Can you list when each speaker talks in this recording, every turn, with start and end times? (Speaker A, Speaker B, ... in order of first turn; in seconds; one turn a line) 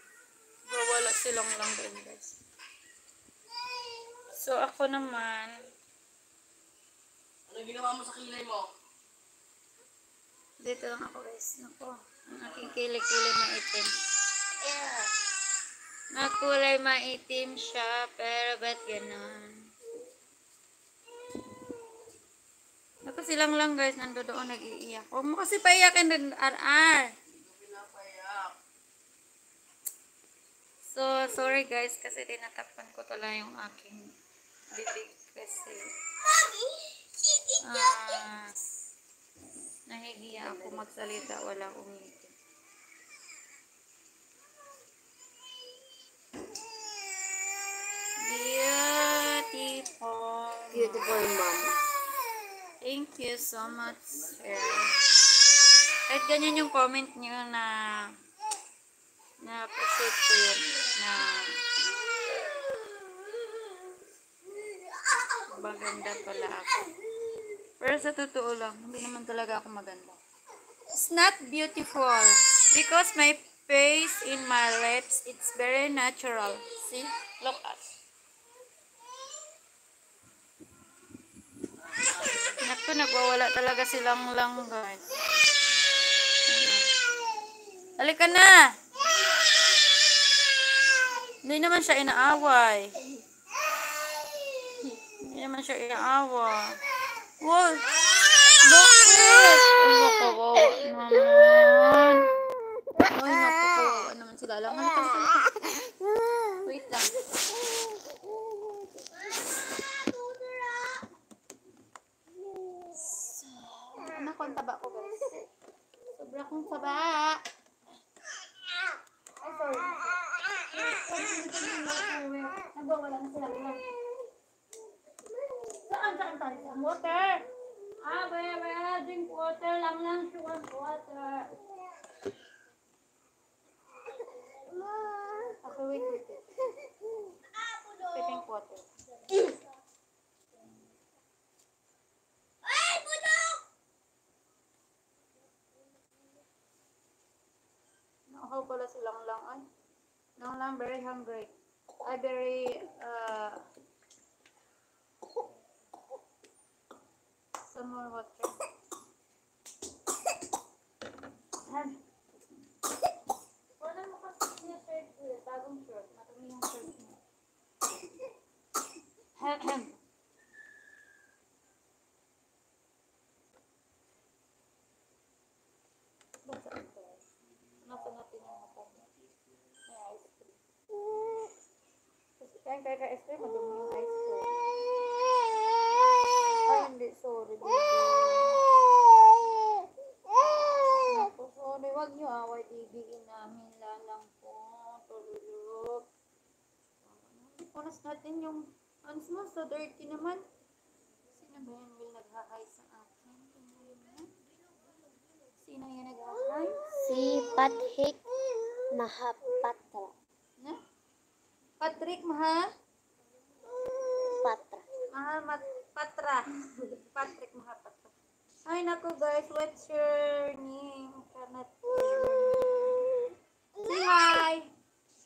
Speaker A: 0.7-2.4
Speaker A: 4.3-5.6
Speaker B: 7.5-8.7
Speaker A: 10.6-13.9
Speaker A: 14.6-15.1
Speaker A: 16.1-19.7
Speaker A: 23.0-27.1
Speaker B: 27.4-28.5
Speaker A: 30.9-34.1
Speaker A: 34.7-35.9
Speaker C: 36.3-36.6
Speaker A: 37.6-38.5
Speaker A: 39.9-42.3
Speaker C: 40.4-40.9
Speaker A: 48.2-51.2
Speaker C: 50.7-51.8
Speaker A: 52.8-55.0
Speaker A: 56.1-58.1
Speaker A: 59.4-61.6
Speaker A: 65.5-66.8
Speaker A: 67.8-70.2
Speaker A: 70.9-77.8
Speaker A: 82.6-85.2
Speaker A: 86.4-86.9
Speaker A: 88.0-88.7
Speaker A: 91.4-93.0
Speaker A: 95.1-96.8
Speaker A: 97.4-97.9
Speaker A: 98.5-102.4
Speaker A: 103.0-105.7
Speaker A: 106.6-107.2
Speaker A: 112.9-115.5
Speaker A: 116.1-117.4
Speaker A: 119.4-123.8
Speaker A: 125.7-127.5
Speaker A: 128.0-131.5
Speaker C: 134.4-135.4
Speaker A: 135.5-136.5
Speaker A: 138.0-138.8
Speaker C: 142.7-143.6
Speaker A: 148.3-149.7
Speaker A: 150.4-151.5
Speaker A: 152.0-153.6
Speaker A: 157.6-158.5
Speaker A: 161.7-162.0
Speaker A: 163.8-167.2
Speaker A: 169.3-169.9
Speaker A: 176.4-177.2
Speaker A: 177.8-179.1
Speaker A: 179.9-180.6
Speaker A: 182.4-184.6
Speaker A: 186.6-188.7
Speaker A: 190.7-196.1
Speaker A: 197.0-200.4
Speaker A: 201.3-204.3
Speaker A: 205.6-206.9
Speaker C: 207.0-208.2
Speaker C: 208.9-210.1
Speaker A: 211.8-212.7
Speaker C: 214.2-214.9
Speaker A: 215.1-218.1
Speaker A: 218.6-223.1
Speaker A: 223.8-224.7